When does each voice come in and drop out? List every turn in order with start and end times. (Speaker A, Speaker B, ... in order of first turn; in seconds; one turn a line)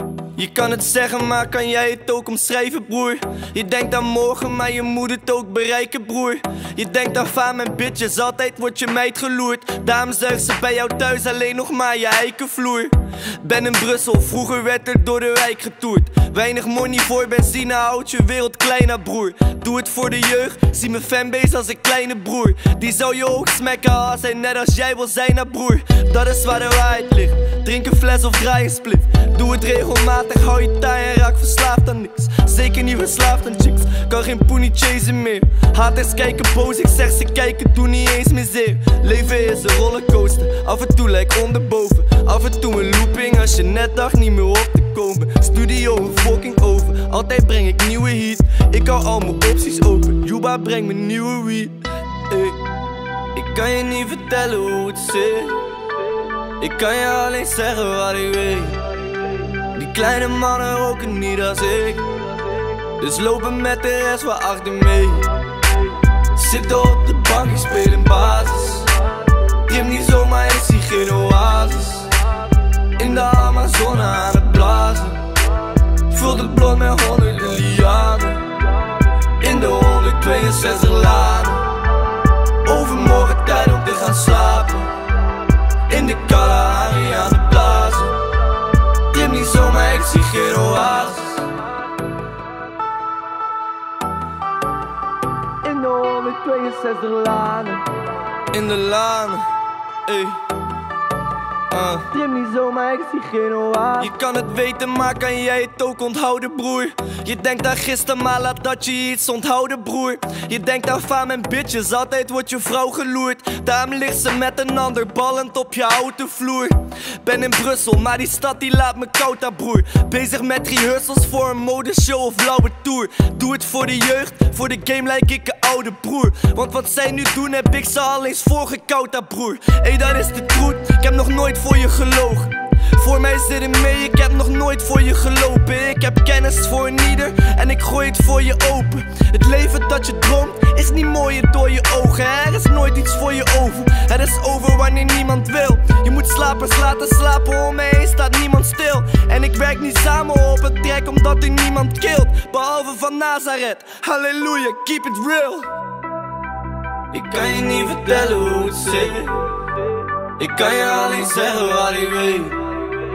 Speaker A: 0.4-51.7
Speaker A: 52.3-52.6
Speaker A: 53.3-55.6
Speaker A: 56.6-58.8
Speaker A: 59.7-62.1
Speaker A: 63.0-65.3
Speaker A: 66.3-68.9
Speaker A: 69.7-72.1
Speaker A: 73.0-75.2
Speaker A: 76.1-78.5
Speaker A: 79.4-81.7
Speaker A: 82.6-84.9
Speaker A: 85.9-88.2
Speaker A: 89.1-91.5
Speaker A: 95.6-97.8
Speaker A: 98.5-99.5
Speaker A: 100.1-100.4
Speaker A: 101.8-155.7
Speaker A: 157.1-159.4
Speaker A: 160.4-162.6